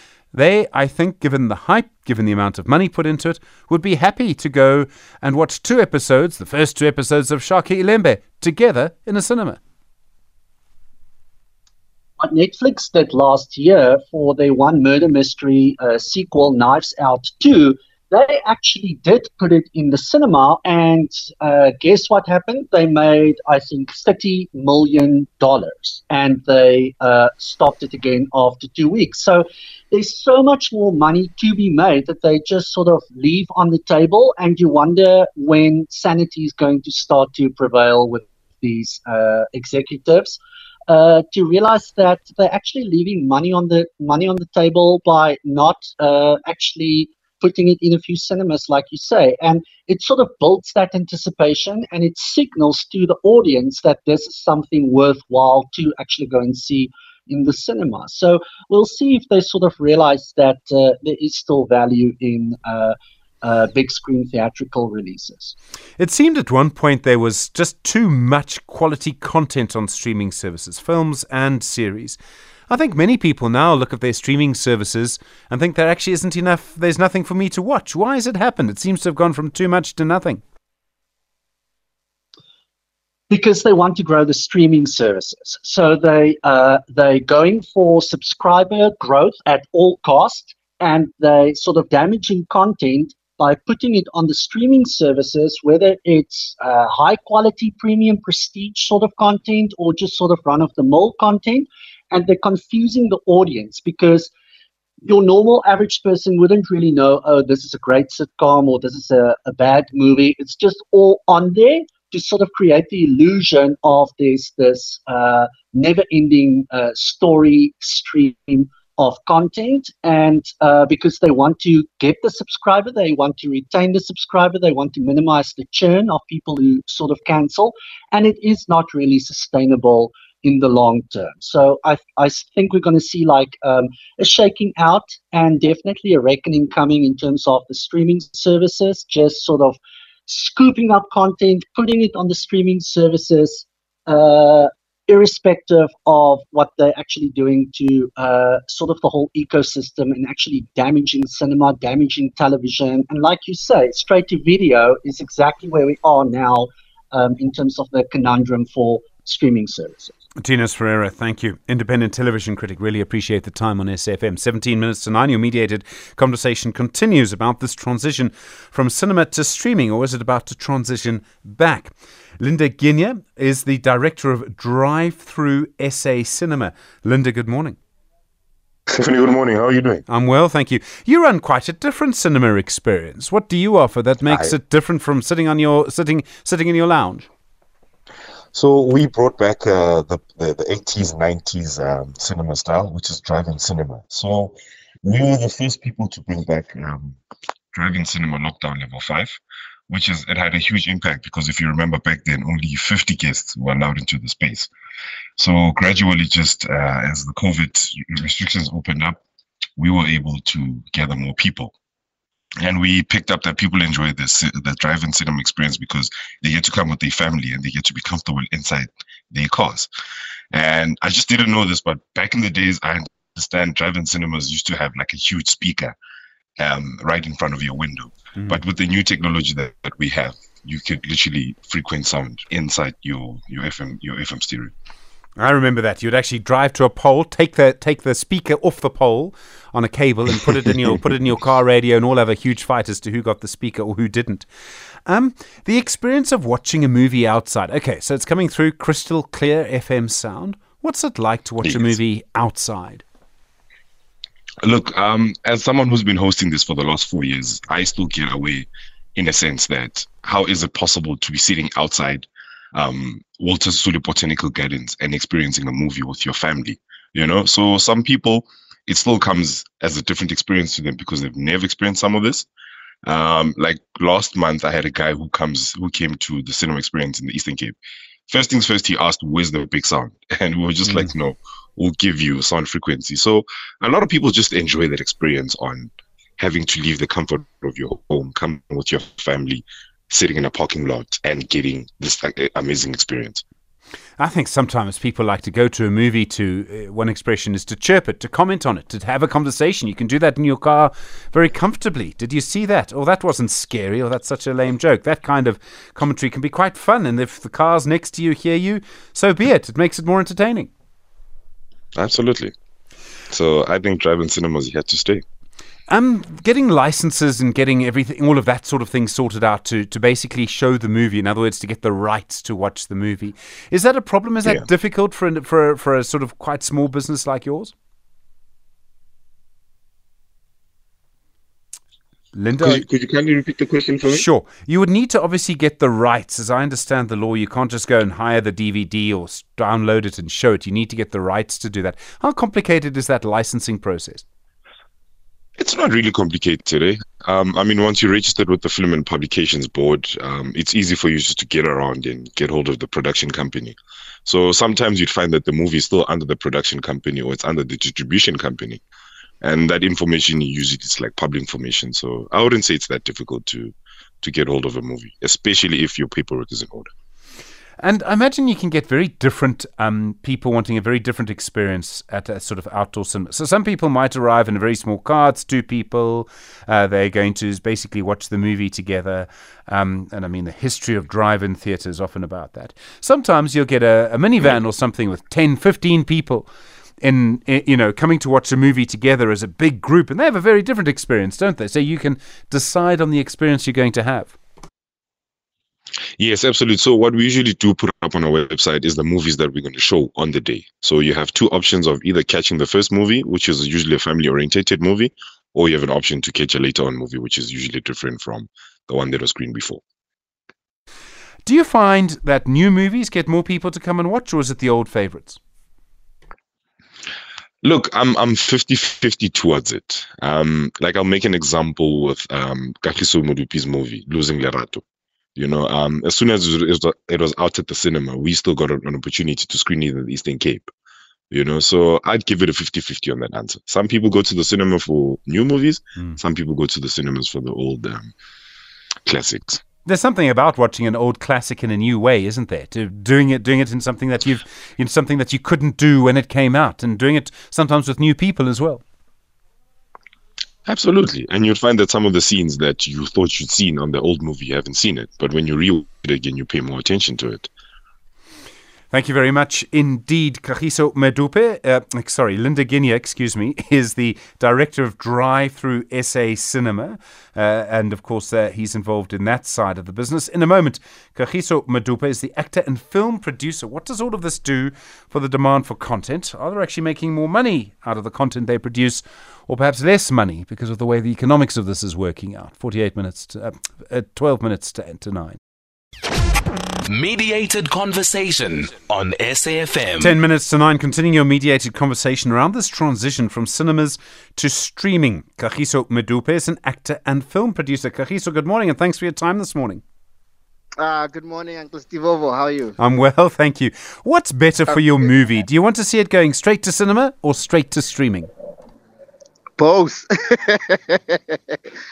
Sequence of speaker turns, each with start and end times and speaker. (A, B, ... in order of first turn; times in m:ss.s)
0:00.3-0:09.6 A
0:12.2-0:40.4 B
0:40.9-1:05.6 B
1:06.0-1:20.4 A
1:23.3-1:44.3 B
1:45.0-2:40.2 B
2:40.4-2:57.8 A
2:58.9-3:00.0 C
3:00.1-3:07.3 A
3:04.3-3:04.5 C
3:08.5-3:17.2 C
3:17.7-3:24.7 C
3:25.4-3:29.2 C
3:29.8-3:31.7 C
3:32.6-3:39.9 C
3:40.5-3:46.0 C
3:46.6-3:54.7 C
3:55.4-4:04.5 A
4:05.1-4:13.0 A
4:11.6-4:12.0 C
4:14.6-4:32.5 C
4:33.0-4:37.7 C
4:38.3-4:53.4 C
4:54.2-5:10.7 A
5:12.0-5:12.5 C
5:13.3-5:15.2 C
5:15.9-5:27.7 A
5:32.3-5:32.8 A
5:32.6-5:34.3 C
5:34.1-5:44.2 A
5:45.6-5:58.8 C
5:59.4-6:06.9 C
6:07.8-6:26.5 A
6:27.0-6:34.4 A
6:36.2-6:49.8 C
6:51.5-6:55.4 A
6:57.6-7:04.8 C
7:05.4-7:10.7 C
7:11.3-7:18.1 C
7:19.1-7:19.6 C
7:19.9-7:28.8 A
7:30.7-7:37.5 C
7:38.9-8:05.4 A
8:06.9-8:10.2 D
8:10.0-8:19.8 A
8:20.8-8:22.8 E
8:22.8-8:28.3 A
8:29.6-8:31.6 E